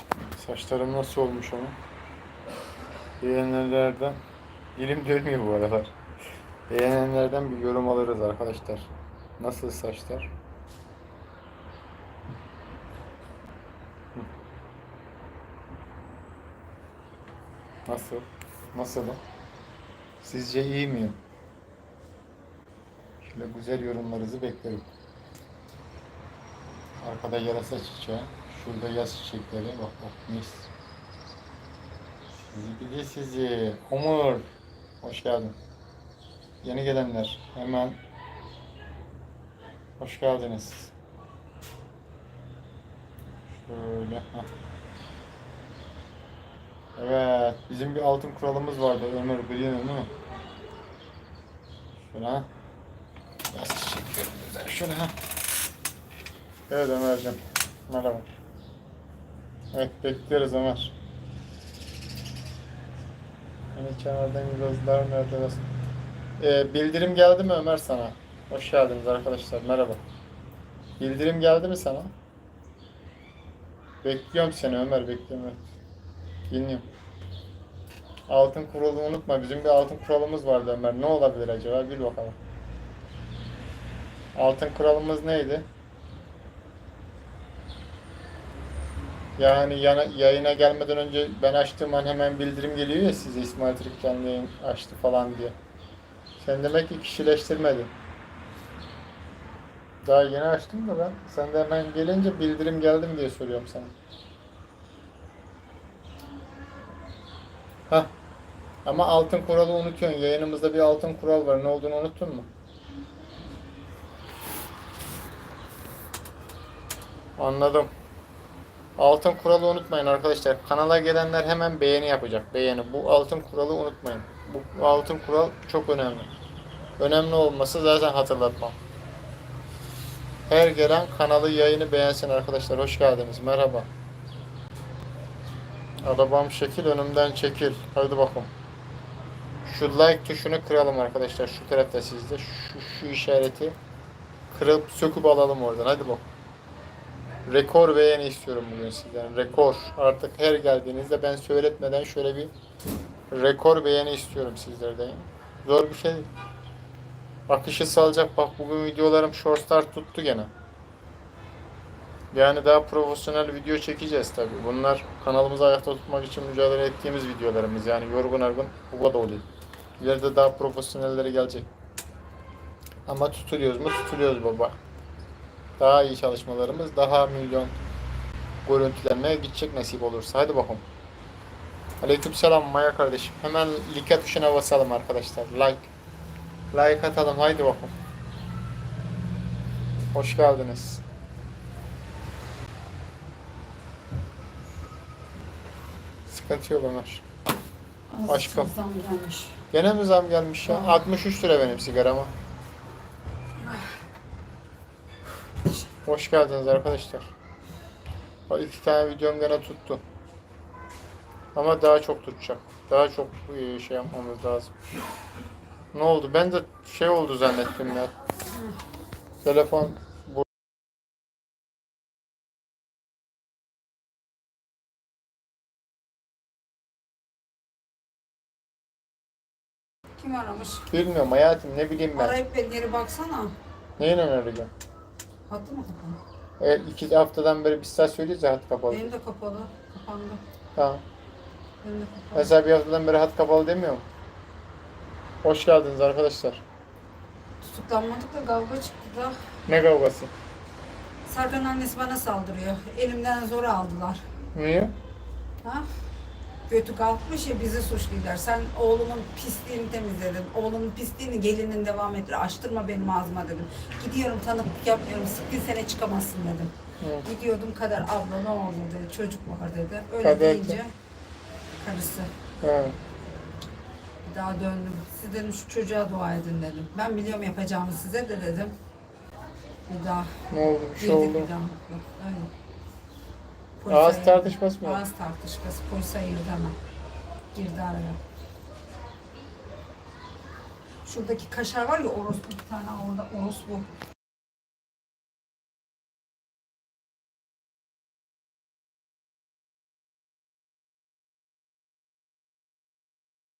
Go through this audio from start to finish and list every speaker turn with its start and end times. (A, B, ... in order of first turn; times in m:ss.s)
0:00.3-0:01.8 A
0:03.2-0:04.2 A
0:04.7-0:05.9 A
0:06.7-0:10.3 A
0:17.8-0:19.2 A
0:20.2-0:21.2 A
0:23.2-0:24.9 A
0:27.0-0:30.7 A
0:32.3-0:34.4 A
0:35.0-0:35.6 A
0:36.6-0:38.0 A
0:40.0-0:40.9 A
0:43.5-0:44.5 A
0:47.0-0:50.1 A
0:52.0-0:52.5 A
0:53.5-0:55.2 A
0:56.7-0:58.3 A
0:59.7-1:00.9 A
1:03.7-1:05.6 A
1:06.4-1:10.0 A
1:11.0-1:12.1 A
1:14.0-1:15.6 A
1:16.5-1:16.9 A
1:18.3-1:22.4 A
1:24.3-1:25.7 A
1:29.4-1:35.6 A
1:36.4-1:37.9 A
1:40.0-1:43.9 A
1:48.8-1:52.5 A
1:57.4-1:57.9 A
1:59.0-2:06.3 A
2:07.0-2:08.8 A
2:10.5-2:13.9 A
2:16.0-2:18.5 A
2:19.6-2:23.8 A
2:24.5-2:26.2 A
2:27.4-2:32.5 A
2:33.3-2:36.3 A
2:37.5-2:40.5 A
2:42.3-2:49.5 A
2:50.0-2:51.7 A
2:53.0-2:54.8 A
2:55.8-2:57.8 A
2:58.6-3:00.8 A
3:02.0-3:05.9 A
3:06.7-3:07.9 A
3:10.1-3:11.0 A
3:16.3-3:17.2 A
3:18.1-3:19.6 B
3:18.3-3:18.7 A
3:19.7-3:22.3 A
3:26.0-3:27.3 A
3:28.5-3:30.0 A
3:31.5-3:34.7 A
3:35.9-3:38.1 A
3:39.4-3:40.5 A
3:50.2-3:50.9 B
3:50.9-3:52.4 A
3:52.1-3:53.5 B
3:54.0-3:54.7 A
3:55.5-3:56.2 B
3:56.6-3:59.1 A
3:58.9-4:00.4 B
4:00.8-4:01.0 A
4:01.8-4:02.5 B
4:02.3-4:04.0 A
4:05.4-4:06.6 A
4:07.6-4:09.4 B
4:09.7-4:10.3 A
4:11.2-4:14.2 B
4:14.5-4:14.9 A
4:16.7-4:26.7 B
4:27.0-4:27.2 A
4:27.2-4:30.9 B
4:30.2-4:30.8 A
4:31.8-4:32.3 B
4:32.6-4:33.0 A
4:34.2-4:38.7 B
4:39.9-4:40.4 B
4:40.5-4:41.5 A
4:41.0-4:42.5 B
4:43.8-4:46.8 B
4:43.9-4:45.0 A
4:47.5-4:48.2 B
4:51.0-4:53.9 B